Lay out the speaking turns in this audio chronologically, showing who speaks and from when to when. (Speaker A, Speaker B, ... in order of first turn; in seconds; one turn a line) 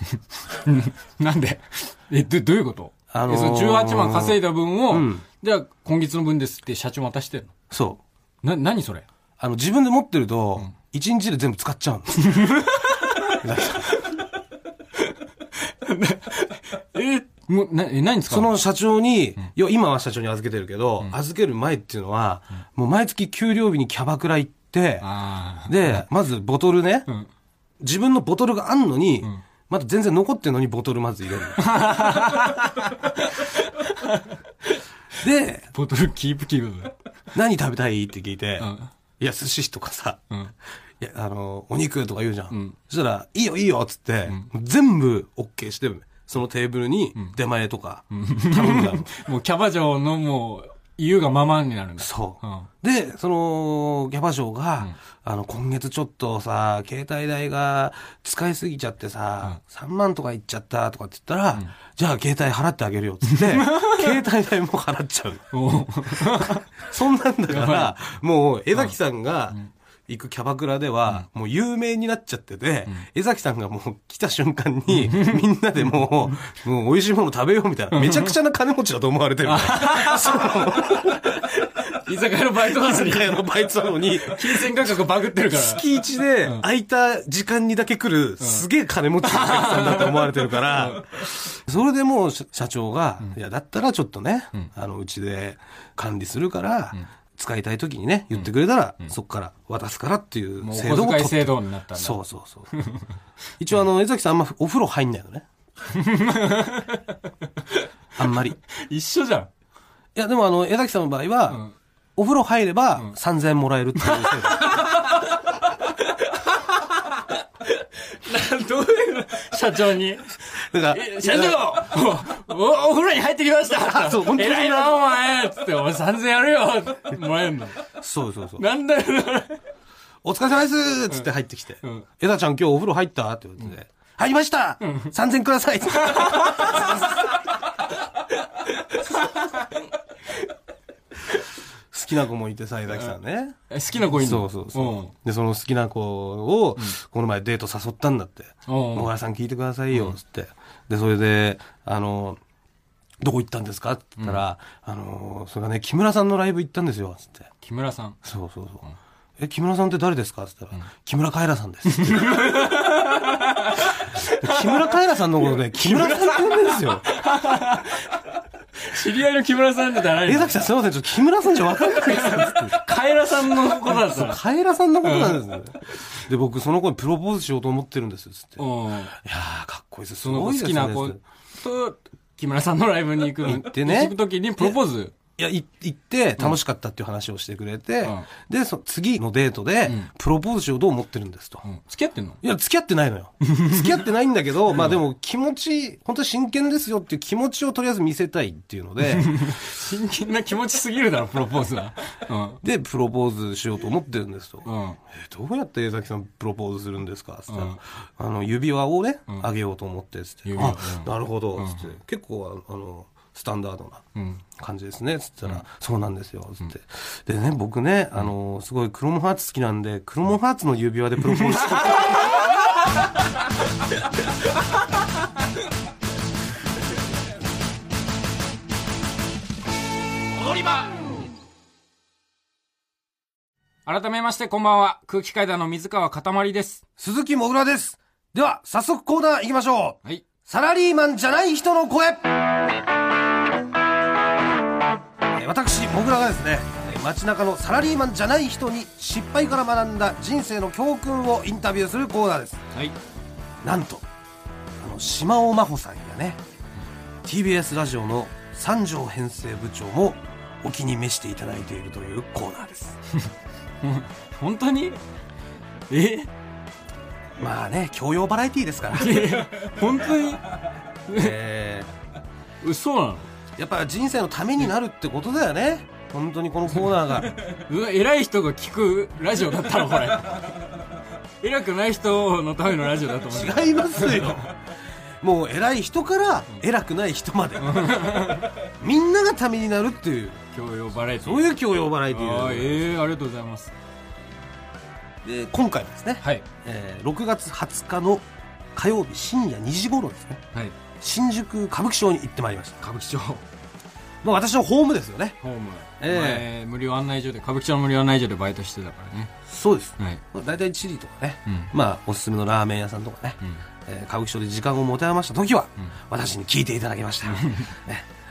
Speaker A: 0.5-7.5
Speaker B: 3.1-5.2
Speaker B: 7.7-8.0
Speaker A: 8.4-9.1
Speaker B: 9.4-12.5
Speaker A: 12.2-13.4
Speaker B: 13.3-14.0
Speaker A: 15.7-18.5
Speaker B: 18.3-25.1
Speaker A: 25.0-26.0
Speaker B: 25.6-27.1
Speaker B: 27.8-31.7
Speaker A: 31.6-34.3
Speaker B: 35.2-35.7
Speaker A: 35.7-36.9
Speaker B: 37.3-40.2
Speaker A: 38.6-38.9
Speaker B: 41.0-49.1
Speaker A: 42.5-42.8
Speaker A: 48.1-52.7
Speaker B: 52.0-65.5
Speaker A: 63.3-64.2
Speaker A: 65.5-66.8
Speaker B: 66.1-81.4
Speaker A: 67.5-68.0
Speaker A: 74.9-75.4
Speaker A: 77.9-78.3
Speaker A: 79.4-85.8
Speaker B: 82.6-84.9
Speaker B: 85.5-102.7
Speaker A: 89.2-91.3
Speaker A: 100.6-102.2
Speaker A: 102.7-103.1
Speaker B: 103.6-105.5
Speaker A: 105.9-107.2
Speaker B: 108.2-108.6
Speaker A: 108.7-109.5
Speaker B: 110.1-111.6
Speaker B: 112.2-114.8
Speaker A: 114.0-115.2
Speaker A: 116.3-116.9
Speaker A: 118.0-127.8
Speaker B: 120.5-121.7
Speaker B: 123.8-125.0
Speaker B: 128.0-128.6
Speaker A: 128.6-129.6
Speaker B: 130.2-137.2
Speaker A: 134.8-135.1
Speaker A: 136.1-137.0
Speaker A: 138.9-139.8
Speaker B: 141.9-143.6
Speaker A: 143.7-145.1
Speaker B: 144.1-152.4
Speaker A: 148.7-149.1
Speaker B: 153.2-157.5
Speaker A: 157.6-158.2
Speaker B: 158.2-158.8
Speaker B: 159.4-162.6
Speaker A: 161.9-164.8
Speaker B: 164.1-167.1
Speaker A: 165.8-168.2
Speaker A: 168.7-170.5
Speaker B: 170.2-172.9
Speaker A: 171.8-174.4
Speaker B: 173.5-181.2
Speaker A: 175.0-176.0
Speaker A: 178.6-179.1
Speaker A: 180.2-185.1
Speaker B: 183.4-184.8
Speaker B: 185.4-191.6
Speaker A: 191.6-192.4
Speaker B: 192.4-199.6
Speaker A: 193.4-193.9
Speaker A: 194.7-195.0
Speaker A: 199.0-202.6
Speaker B: 202.6-214.0
Speaker A: 204.6-205.0
Speaker A: 207.5-207.8
Speaker A: 210.4-211.9
Speaker A: 214.2-214.4
Speaker B: 214.6-222.4
Speaker A: 221.6-222.2
Speaker A: 233.8-236.8
Speaker B: 237.0-242.5
Speaker B: 245.3-252.6
Speaker B: 253.6-254.0
Speaker B: 254.8-256.4
Speaker B: 257.2-263.0
Speaker A: 263.8-265.0
Speaker A: 265.9-266.3
Speaker B: 267.4-269.4
Speaker A: 268.9-270.5
Speaker A: 271.1-271.3
Speaker B: 271.1-271.9
Speaker A: 272.6-273.3
Speaker B: 273.6-277.3
Speaker A: 277.3-280.7
Speaker A: 281.4-284.5
Speaker B: 283.3-284.6
Speaker B: 285.2-290.4
Speaker A: 287.6-288.6
Speaker A: 290.5-291.5
Speaker B: 291.2-292.9
Speaker A: 292.1-293.7
Speaker B: 295.2-300.4
Speaker A: 296.2-296.4
Speaker B: 301.0-302.8
Speaker A: 302.8-303.4
Speaker B: 304.2-305.4
Speaker A: 305.4-309.3
Speaker B: 306.0-306.4
Speaker B: 309.4-318.1
Speaker A: 311.5-311.7
Speaker A: 317.3-317.7